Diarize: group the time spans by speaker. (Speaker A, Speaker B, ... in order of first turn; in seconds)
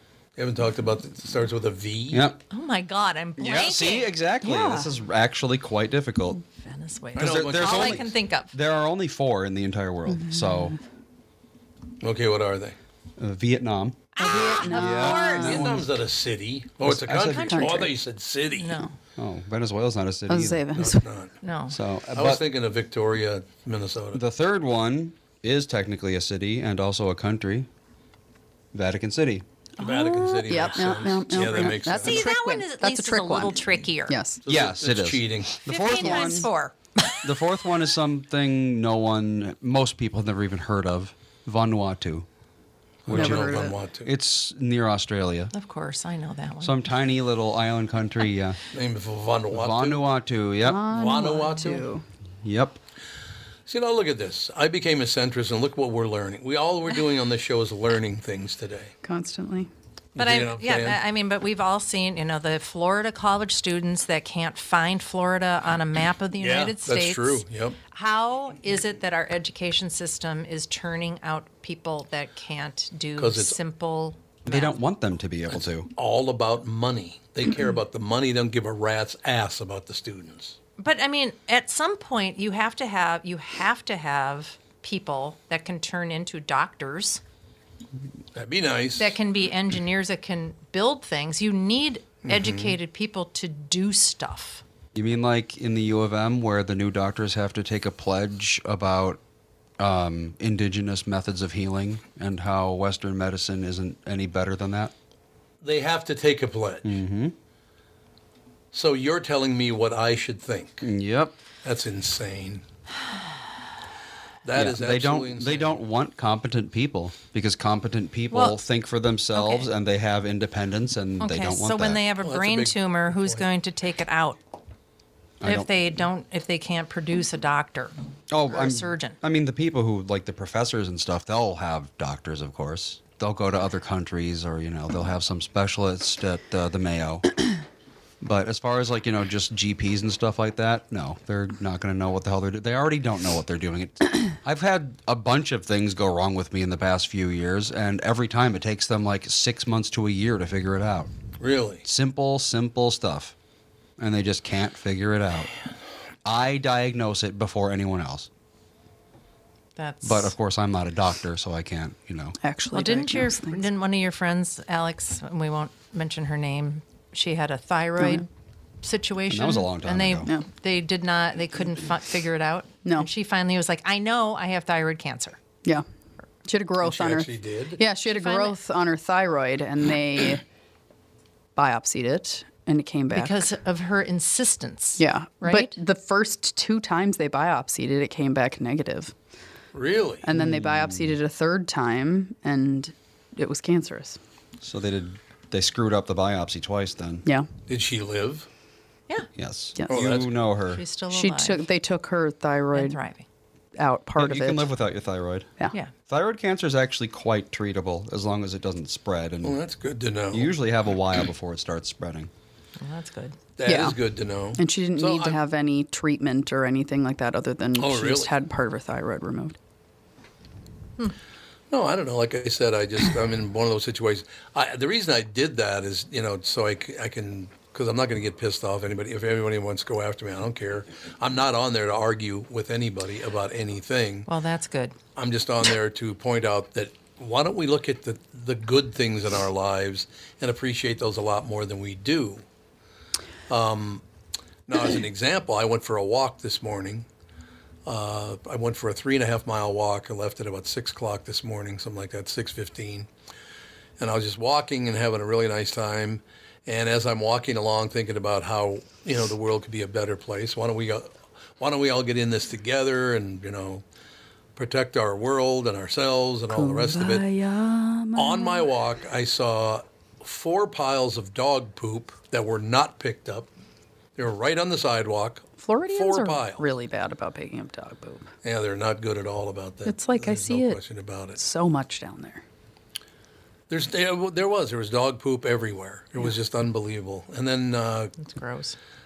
Speaker A: 0.4-2.2, 7.1-8.0, 12.0-12.8, 15.2-18.8, 20.7-21.3, 22.1-24.2, 29.8-32.2, 34.4-35.5, 43.0-44.1, 48.7-50.0, 50.9-51.9, 53.7-58.9, 60.1-61.0, 66.4-67.8, 73.2-73.6, 75.5-80.5, 88.3-89.1, 92.2-92.8, 105.6-107.0, 108.7-110.9, 111.6-112.6, 114.4-115.8, 122.2-123.4, 151.4-151.8, 176.8-177.8, 189.7-190.2, 197.7-198.5, 199.9-200.3, 209.4-210.5, 213.6-215.4, 217.8-218.3, 221.7-234.3, 235.2-242.4, 243.5-244.0, 244.7-247.1, 247.8-253.1, 254.0-263.8, 264.6-267.2, 268.1-273.5, 274.1-276.6, 278.4-281.4, 283.7-288.1
Speaker B: 2.1-2.4, 3.4-6.4, 7.1-10.8, 13.2-14.1, 14.6-15.9, 16.8-17.7, 19.2-20.9, 21.7-22.4, 24.1-27.7, 28.7-29.4, 34.5-36.5, 37.2-42.2, 43.1-45.5, 46.6-48.6, 49.5-50.8, 52.4-52.8, 74.5-75.9, 94.9-99.2, 99.8-104.9, 106.8-107.3, 110.8-111.3, 114.5-122.0, 125.4-125.7, 128.3-137.3, 138.2-151.1, 151.8-153.3, 154.0-155.5, 156.2-158.3, 160.0-162.4, 169.3-170.3, 190.3-191.2, 194.6-197.2, 199.3-200.8, 204.2-205.5, 206.1-209.6, 210.3-212.3
Speaker C: 2.5-4.1, 6.6-8.5, 14.2-15.6, 17.3-17.8, 18.6-18.9, 21.4-21.8, 32.0-34.2, 35.6-37.2, 45.5-46.8, 60.1-74.8, 80.8-87.2, 89.0-94.6, 118.3-118.6, 119.3-119.7, 121.2-124.4, 125.4-127.9, 128.5-129.2, 159.8-160.3, 162.7-168.3, 168.8-175.4, 178.0-178.6, 183.1-185.7, 200.7-201.7, 202.7-203.2, 212.8-213.3, 234.3-234.9, 288.2-288.8
Speaker D: 4.4-4.9, 10.1-10.8, 14.2-15.6, 17.5-17.9, 20.3-21.0, 29.8-34.4, 36.0-36.5, 43.1-43.8, 50.6-52.0, 59.0-59.7, 162.4-163.6, 168.0-168.2, 176.4-180.4, 181.6-183.5, 185.0-189.1, 190.2-194.2, 201.1-203.0, 203.8-204.7, 213.7-214.0, 214.6-219.6, 266.5-268.7, 275.6-278.3, 279.9-280.8, 281.4-282.4